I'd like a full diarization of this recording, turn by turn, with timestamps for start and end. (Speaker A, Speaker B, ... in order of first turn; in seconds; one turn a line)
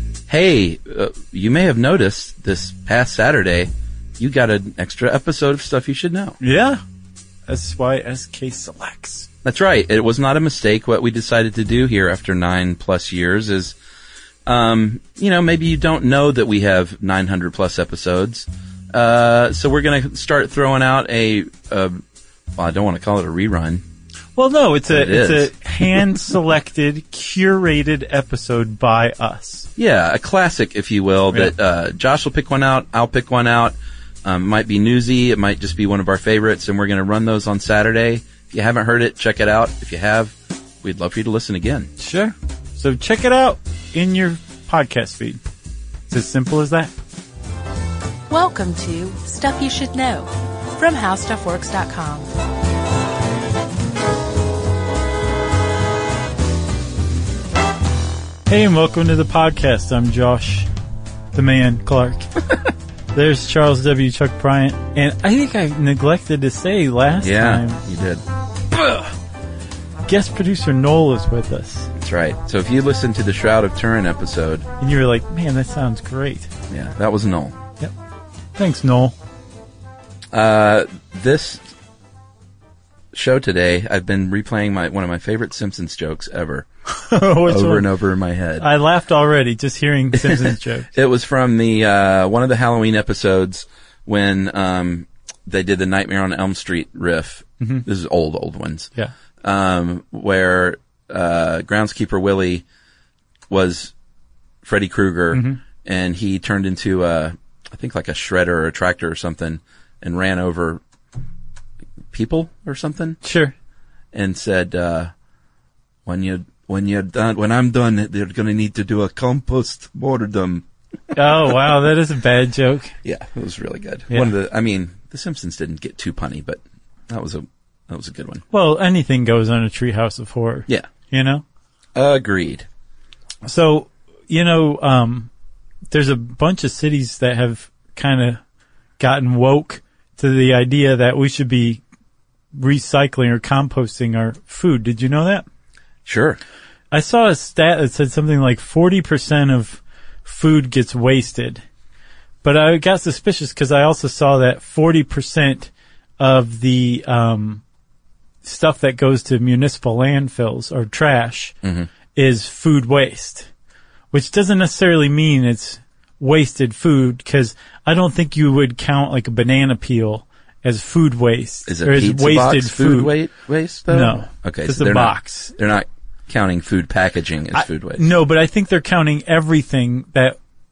Speaker A: 0.3-6.4
Speaker B: 6.4-6.8
Speaker B: 7.5-9.3
Speaker A: 9.4-13.8
Speaker A: 14.4-22.0
Speaker A: 22.5-23.8
Speaker B: 24.4-29.7
Speaker A: 24.9-26.1
Speaker A: 29.8-41.9
Speaker B: 42.0-45.4
Speaker B: 46.1-46.9
Speaker C: 48.3-52.3
Speaker B: 58.5-60.7
Speaker B: 61.3-62.3
Speaker B: 63.1-67.8
Speaker A: 67.2-68.2
Speaker B: 68.7-69.1
Speaker B: 70.0-71.9
Speaker A: 72.0-74.7
Speaker B: 74.8-76.5
Speaker A: 76.7-77.6
Speaker B: 78.5-79.1
Speaker A: 80.3-81.6
Speaker A: 83.1-86.7
Speaker B: 86.9-87.8
Speaker A: 87.4-88.7
Speaker B: 88.6-90.9
Speaker A: 90.1-98.9
Speaker B: 97.6-97.8
Speaker A: 99.4-102.6
Speaker A: 103.5-103.9
Speaker A: 104.6-110.8
Speaker B: 105.3-105.6
Speaker A: 112.1-113.2
Speaker B: 113.2-113.5
Speaker A: 114.1-115.1
Speaker A: 116.0-121.5
Speaker B: 121.1-122.9
Speaker A: 123.0-128.4
Speaker B: 128.5-131.4
Speaker A: 131.9-132.7
Speaker B: 133.4-135.3
Speaker B: 135.9-138.4
Speaker B: 139.0-141.8
Speaker B: 142.5-145.4
Speaker A: 146.1-146.4
Speaker B: 146.9-151.6
Speaker B: 152.4-157.6
Speaker B: 158.4-161.5
Speaker A: 161.6-161.9
Speaker B: 162.1-163.5
Speaker B: 164.1-173.2
Speaker A: 171.7-178.1
Speaker B: 173.9-175.5
Speaker B: 177.5-180.4